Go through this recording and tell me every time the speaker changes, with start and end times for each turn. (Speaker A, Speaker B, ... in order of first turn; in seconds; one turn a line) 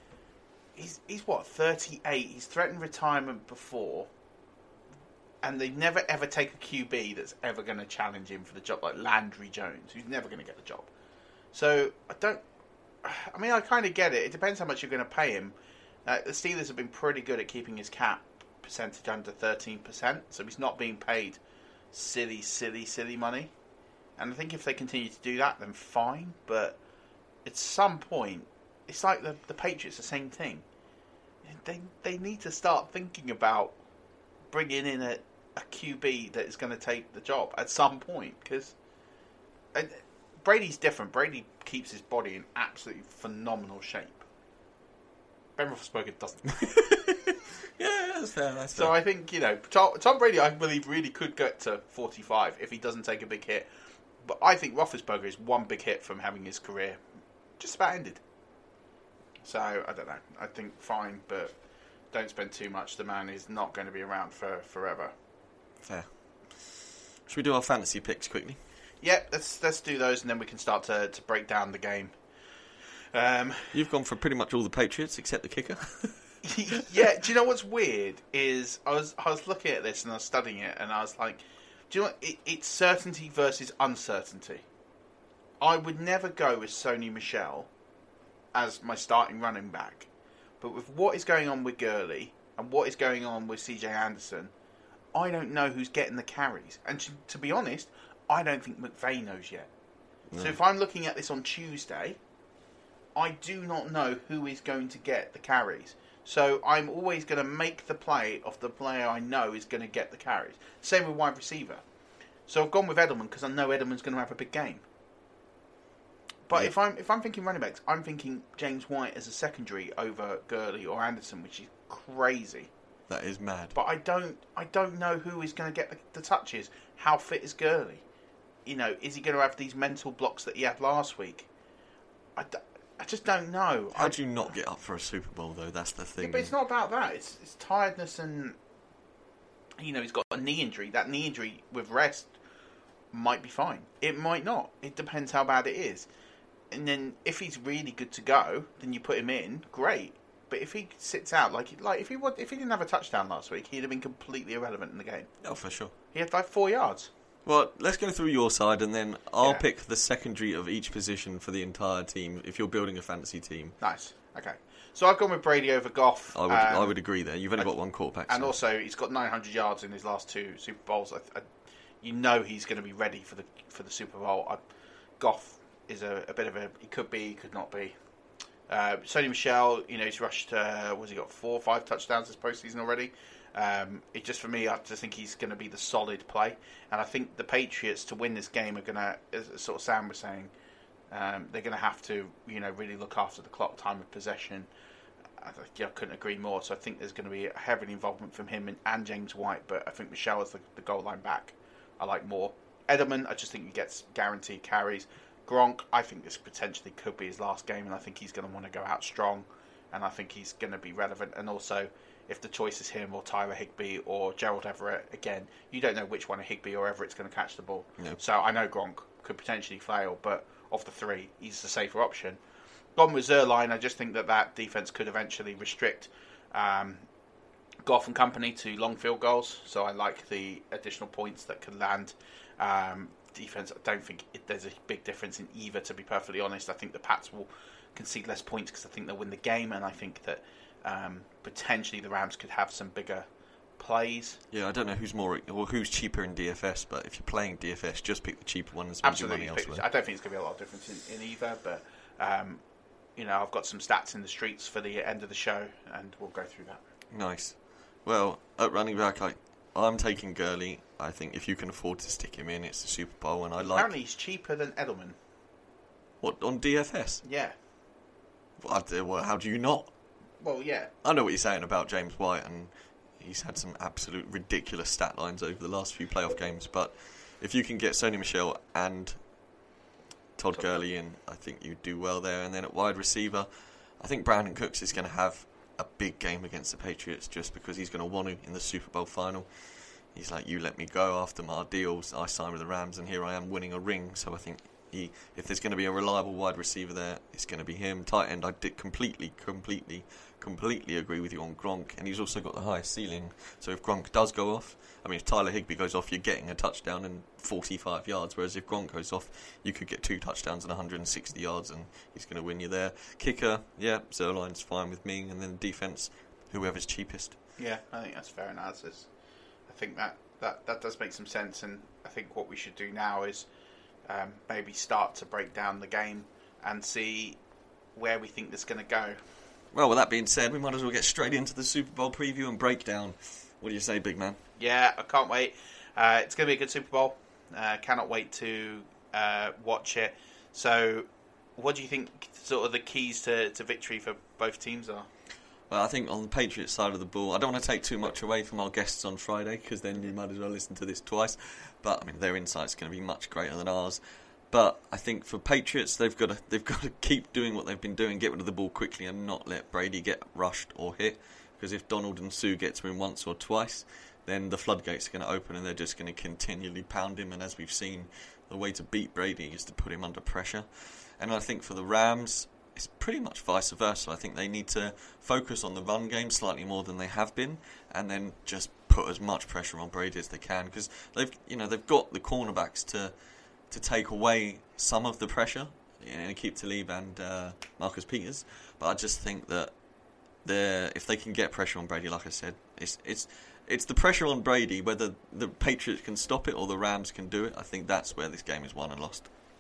Speaker A: 0.8-4.1
Speaker A: 5.4-10.9
Speaker A: 11.5-12.4
Speaker A: 13.0-21.4
Speaker A: 21.9-23.5
Speaker A: 24.2-26.8
Speaker A: 27.4-30.6
Speaker A: 31.4-33.8
Speaker A: 34.5-38.8
Speaker A: 39.7-44.2
Speaker A: 45.6-46.9
Speaker B: 46.9-47.1
Speaker B: 47.8-49.0
Speaker A: 48.7-53.7
Speaker A: 54.2-57.0
Speaker A: 57.6-58.2
Speaker A: 59.4-61.6
Speaker A: 62.1-65.1
Speaker B: 65.8-66.6
Speaker B: 67.3-68.6
Speaker A: 69.0-72.1
Speaker A: 73.1-73.8
Speaker B: 73.7-76.2
Speaker A: 76.4-84.6
Speaker A: 85.6-87.7
Speaker A: 88.5-90.1
Speaker A: 90.6-94.5
Speaker A: 95.1-99.7
Speaker B: 100.3-100.6
Speaker A: 100.4-102.2
Speaker A: 103.1-111.8
Speaker A: 112.5-114.8
Speaker A: 116.5-122.7
Speaker B: 123.1-123.8
Speaker A: 123.7-128.0
Speaker A: 128.7-131.5
Speaker A: 132.4-134.1
Speaker B: 133.9-136.5
Speaker A: 136.2-138.6
Speaker A: 139.8-142.3
Speaker A: 143.1-146.1
Speaker A: 146.7-155.3
Speaker B: 155.4-155.9
Speaker A: 156.1-157.1
Speaker B: 157.5-163.8
Speaker A: 163.8-167.0
Speaker B: 166.3-168.6
Speaker A: 168.3-171.5
Speaker A: 172.0-174.6
Speaker A: 175.2-178.0
Speaker A: 178.7-190.5
Speaker A: 191.1-194.7
Speaker A: 195.4-222.4
Speaker A: 223.0-227.1
Speaker A: 227.8-244.4
Speaker B: 244.5-249.8
Speaker A: 249.0-252.6
Speaker A: 253.2-256.8
Speaker B: 257.1-263.9
Speaker A: 263.6-265.2
Speaker B: 266.2-267.2
Speaker A: 267.2-267.6
Speaker B: 268.6-269.9
Speaker A: 270.4-270.9
Speaker B: 271.0-279.2
Speaker B: 280.4-283.5
Speaker A: 280.5-280.8
Speaker B: 284.0-317.4
Speaker A: 317.6-319.1
Speaker A: 319.7-323.5
Speaker A: 324.1-327.4
Speaker A: 327.9-329.2
Speaker B: 329.7-334.4
Speaker A: 334.6-345.1
Speaker B: 345.7-383.1
Speaker B: 383.7-389.7
Speaker B: 390.4-399.3